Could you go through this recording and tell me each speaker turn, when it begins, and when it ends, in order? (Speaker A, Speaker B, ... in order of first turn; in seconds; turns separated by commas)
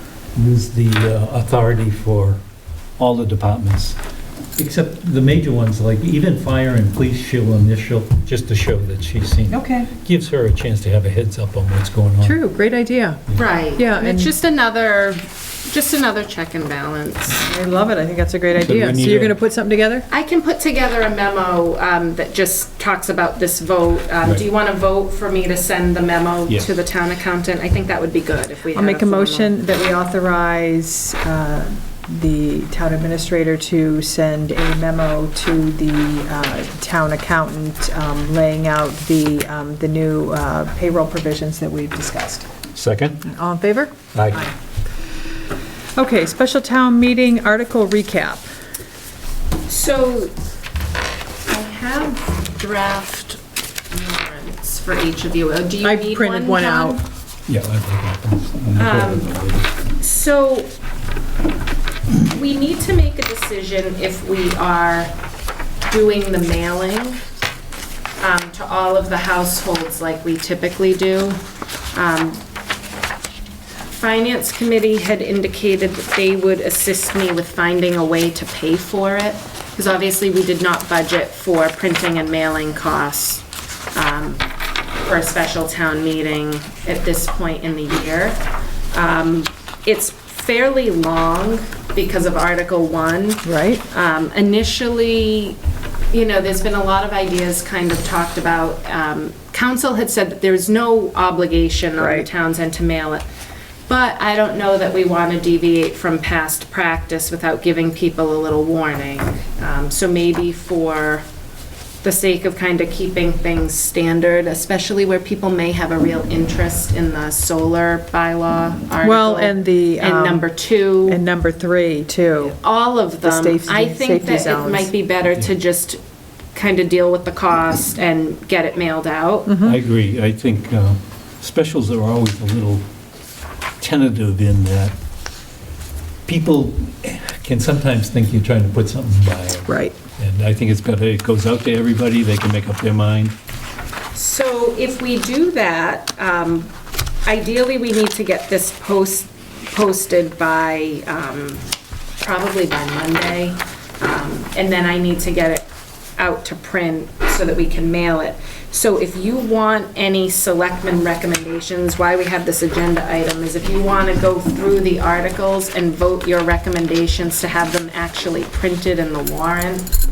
Speaker A: 0.3-2.4, Speaker A: 3.0-4.0, Speaker A: 4.6-12.4, Speaker B: 9.5-9.9, Speaker B: 12.2-13.2, Speaker C: 13.3-17.5, Speaker B: 13.8-14.3, Speaker B: 17.4-20.1, Speaker A: 18.6-19.4, Speaker C: 20.1-29.5, Speaker B: 28.7-42.5, Speaker A: 42.7-43.2, Speaker B: 43.2-44.5, Speaker A: 44.1-44.5, Speaker B: 45.9-48.5, Speaker C: 49.7-50.3, Speaker C: 51.5-57.0, Speaker B: 55.8-57.0, Speaker A: 57.5-59.7, Speaker C: 58.8-59.3, Speaker C: 60.0-60.7, Speaker C: 62.2-65.1, Speaker C: 65.8-67.2, Speaker C: 68.2-71.4, Speaker C: 71.9-72.4, Speaker C: 73.9-84.4, Speaker C: 85.0-88.4, Speaker C: 88.9-95.6, Speaker B: 93.4-93.8, Speaker C: 96.1-103.2, Speaker B: 102.0-102.3, Speaker C: 103.9-111.2, Speaker C: 112.0-121.2, Speaker B: 119.0-120.4, Speaker B: 121.1-122.6, Speaker C: 122.4-126.0, Speaker B: 123.2-124.9, Speaker C: 126.5-129.6, Speaker B: 129.5-129.8, Speaker A: 129.6-132.8, Speaker A: 133.8-134.9, Speaker A: 136.3-143.3, Speaker B: 139.7-139.9, Speaker C: 144.1-146.7, Speaker C: 147.2-151.7, Speaker C: 152.2-155.7, Speaker C: 156.2-169.9